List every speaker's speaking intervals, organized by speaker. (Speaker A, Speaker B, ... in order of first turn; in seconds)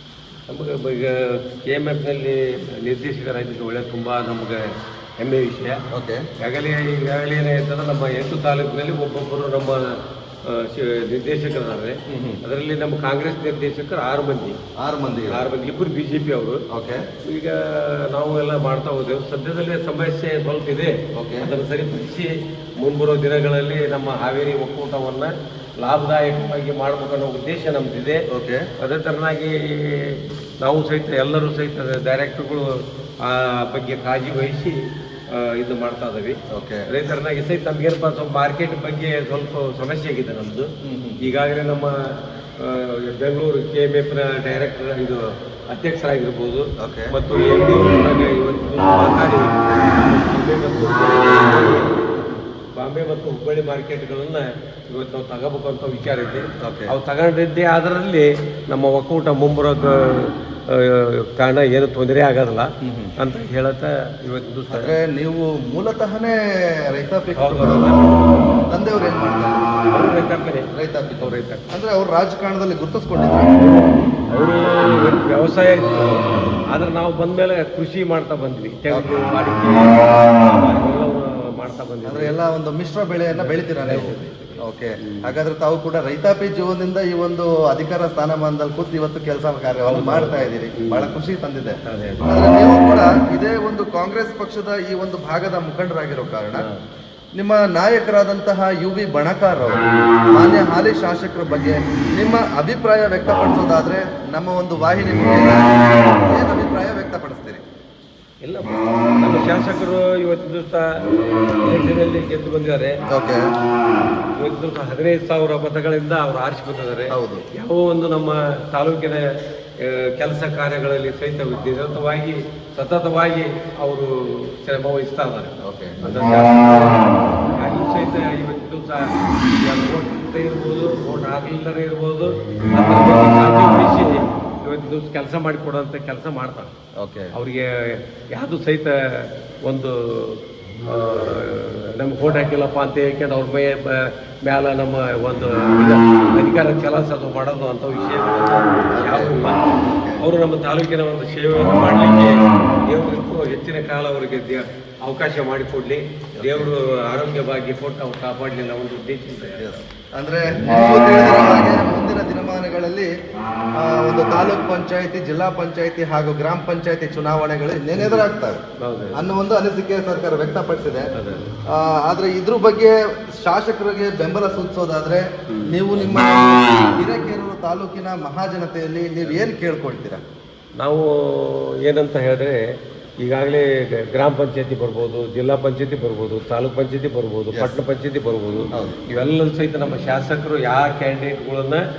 Speaker A: 0.5-5.8, 6.4-14.6, 15.3-16.6, 17.2-28.2, 28.8-34.8, 35.3-52.0, 52.8-64.9, 67.3-68.3, 69.9-70.7, 71.2-71.7, 74.3-82.3, 83.3-85.3, 89.8-91.1, 91.8-92.4, 108.4-111.0, 111.6-113.0, 114.3-119.3, 119.8-136.7, 137.3-149.7, 150.2-159.8, 168.0-168.2, 168.8-169.2, 171.1-171.4, 175.5-175.8, 180.8-182.7, 183.2-191.8
Speaker B: 5.9-6.3, 12.1-12.4, 14.8-15.4, 16.7-17.0, 21.1-21.5, 28.3-28.7, 36.5-36.9, 40.8-41.3, 46.8-47.1, 56.6-56.9, 62.8-63.1, 64.7-68.0, 68.7-69.8, 70.7-74.0, 82.0-96.7, 97.4-107.6, 113.1-113.5, 117.1-117.4, 125.6-126.4, 137.0-137.3, 148.9-150.2, 156.4-156.7, 159.6-163.1, 163.8-168.6, 169.1-171.1, 171.7-180.2, 188.7-189.0